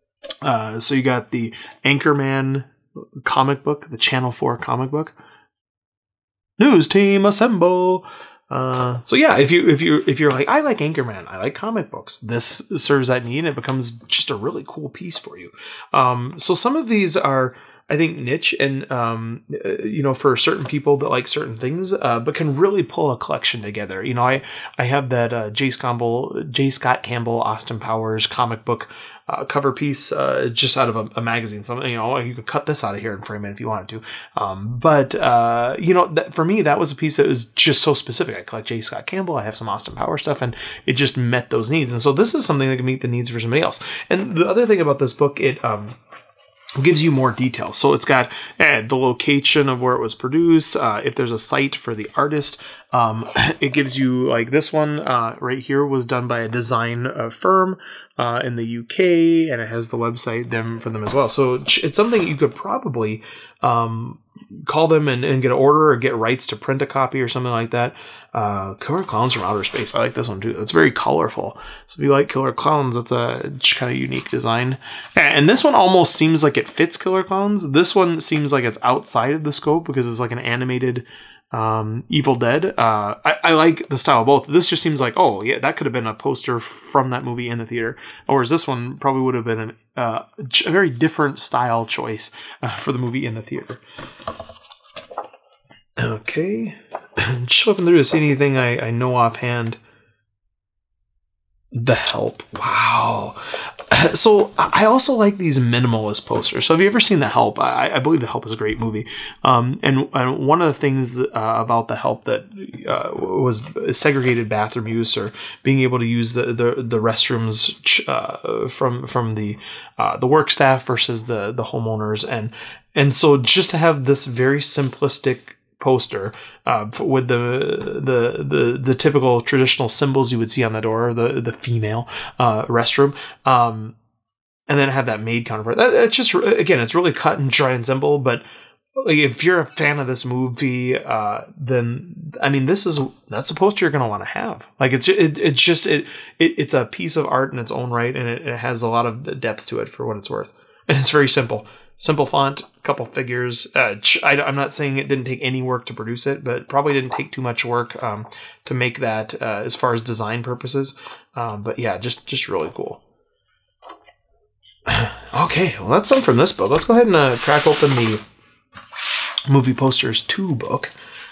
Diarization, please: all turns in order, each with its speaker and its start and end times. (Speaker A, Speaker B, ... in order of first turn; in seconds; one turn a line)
Speaker A: 0.4-5.1
Speaker A: 6.6-46.0
Speaker A: 46.8-93.8
Speaker A: 96.0-99.8
Speaker A: 101.7-134.0
Speaker A: 134.7-138.4
Speaker A: 139.0-163.0
Speaker A: 164.9-168.2
Speaker A: 169.5-170.9